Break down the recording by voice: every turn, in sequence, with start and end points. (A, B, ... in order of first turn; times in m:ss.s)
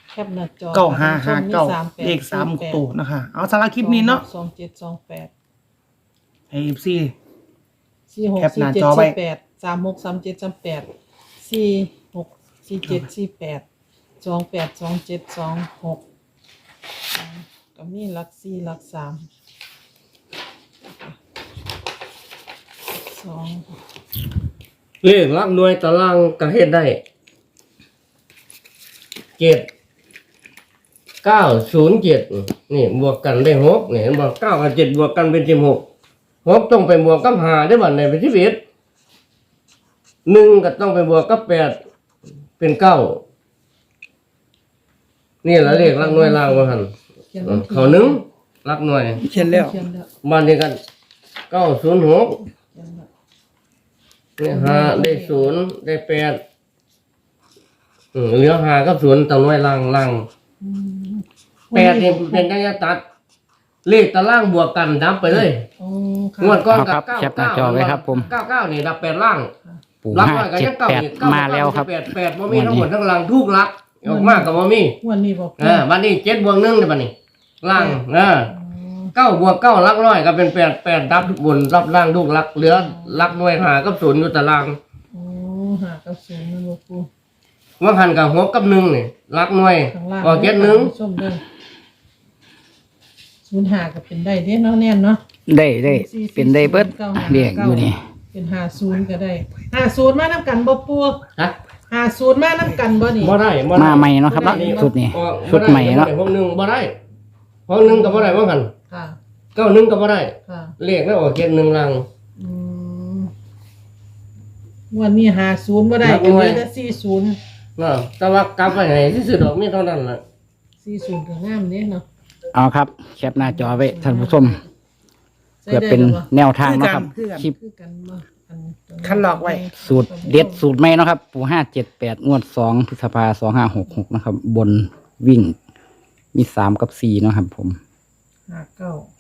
0:00.1-0:02.8 A
0:00.7-0:04.2 B
0:03.8-0:05.3 A
0:06.5-0:07.1 B
0:08.1-0:10.9 A
0:08.4-0:09.2 B
0:11.4-0:13.6 A
0:14.2-0:16.0 A
0:17.1-0:19.3 A
0:20.9-0:21.2 A
0:22.9-0:23.8 A
0:25.0-0:27.0 C
0:29.4-0:29.7 C
0:31.2-0:35.8 C
0:36.4-0:38.6 C
0:40.3-0:41.8 C
0:42.6-0:43.2 C
0:45.4-0:46.9 C
0:45.6-0:46.8 A
0:47.3-0:48.2 A
0:47.4-0:49.2 C
0:49.2-0:49.8 B
0:49.2-0:50.1 A
0:50.2-0:50.8 C
0:51.5-0:52.4 C
0:52.5-0:53.1 A
0:54.4-0:56.4 C
0:54.4-0:55.6 A
0:58.1-1:00.3 C
1:00.6-1:02.5 A
1:01.7-1:03.0 C
1:03.8-1:05.6 C
1:05.3-1:06.7 A
1:06.4-1:09.5 C
1:06.7-1:08.3 D
1:10.0-1:12.9 D
1:10.1-1:15.0 C
1:14.0-1:15.9 A
1:15.6-1:18.5 C
1:17.7-1:19.1 A
1:19.2-1:24.8 C
1:22.6-1:23.4 A
1:25.1-1:27.1 A
1:27.8-1:30.9 C
1:29.9-1:31.4 A
1:33.4-1:35.2 A
1:35.5-1:38.0 D
1:35.8-1:41.2 A
1:41.9-1:43.4 A
1:43.2-1:47.0 C
1:43.7-1:46.1 D
1:44.3-1:44.9 A
1:47.7-1:48.7 C
1:47.8-1:49.2 A
1:49.6-1:52.1 C
1:50.5-1:50.7 A
1:52.4-1:53.3 A
1:54.9-1:57.4 A
1:56.0-1:56.6 C
1:57.8-2:00.2 C
2:00.8-2:02.0 A
2:02.5-2:04.6 D
2:03.2-2:04.7 A
2:05.6-2:06.3 A
2:05.7-2:07.5 D
2:06.6-2:07.5 B
2:07.4-2:10.7 A
2:09.0-2:09.7 B
2:09.8-2:15.6 D
2:16.3-2:17.8 D
2:18.5-2:19.1 A